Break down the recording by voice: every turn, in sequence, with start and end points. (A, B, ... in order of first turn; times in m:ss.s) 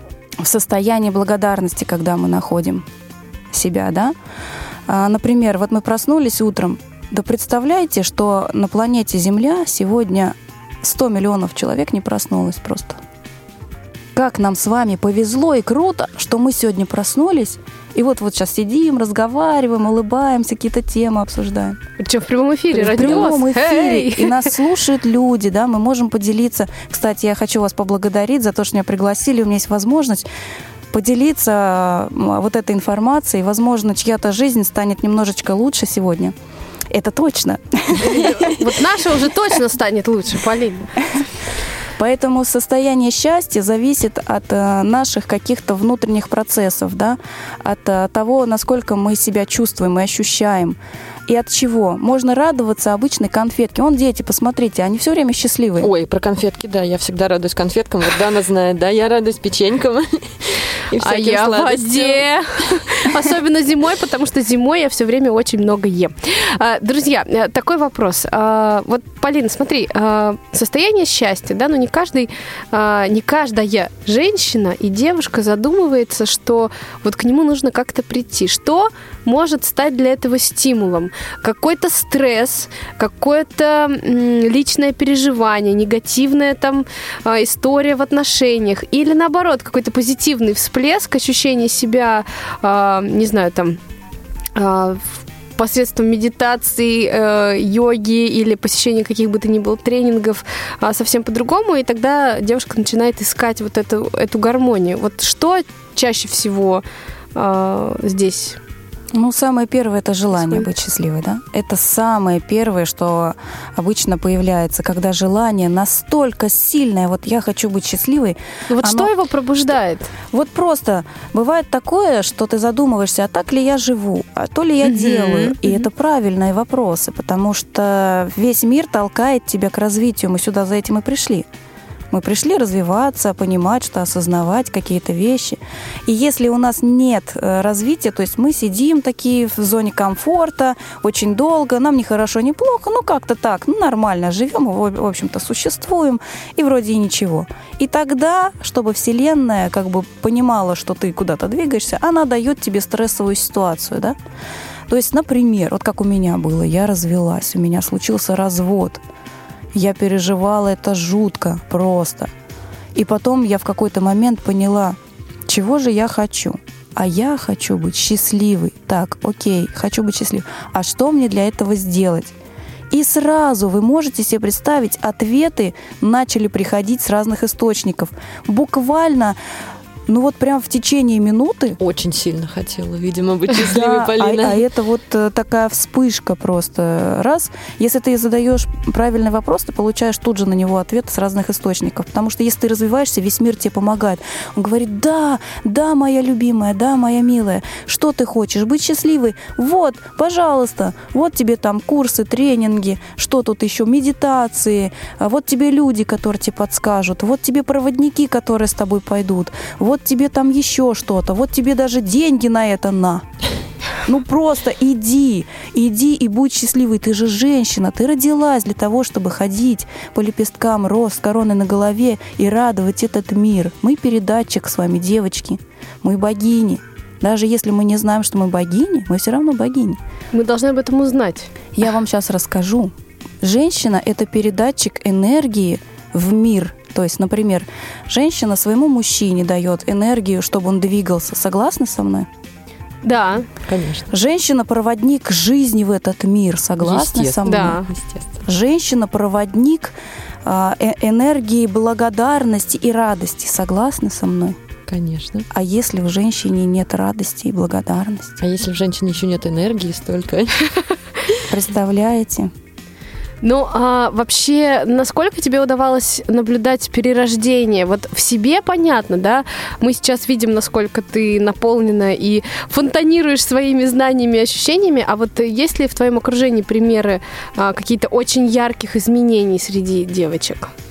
0:00.4-0:02.9 A
0:03.5-0:04.2 A
0:04.9-0:13.0 A
0:14.1-0:21.8 A
0:22.0-0:24.5 B
0:22.7-0:30.3 A
0:30.9-0:36.4 A
0:36.9-0:38.6 A
0:38.0-0:41.0 B
0:42.0-0:55.9 A
0:55.8-1:03.0 C
1:01.0-1:33.8 B
1:34.6-1:46.8 B
1:47.4-1:48.6 B
1:49.1-1:59.1 A
1:50.3-1:50.7 B
1:58.7-2:00.1 B
2:00.3-2:11.5 A
2:04.8-2:05.9 B
2:12.1-2:34.2 A
2:34.9-2:39.0 A
2:39.7-2:42.3 A
2:43.0-2:52.4 A
2:52.9-2:59.4 A
3:00.1-3:01.8 A
3:01.8-3:04.6 C
3:03.6-3:33.3 A
3:34.0-3:50.0 A
3:50.3-3:51.5 B
3:51.7-4:02.3 A
4:03.0-4:03.5 B
4:03.7-4:04.1 C
4:04.1-4:07.8 A
4:06.8-4:08.4 C
4:07.4-4:07.9 B
4:08.4-4:14.6 A
4:14.9-4:15.5 C
4:15.5-4:18.4 A
4:18.4-4:20.7 C
4:21.5-4:22.5 A
4:23.4-4:40.7 B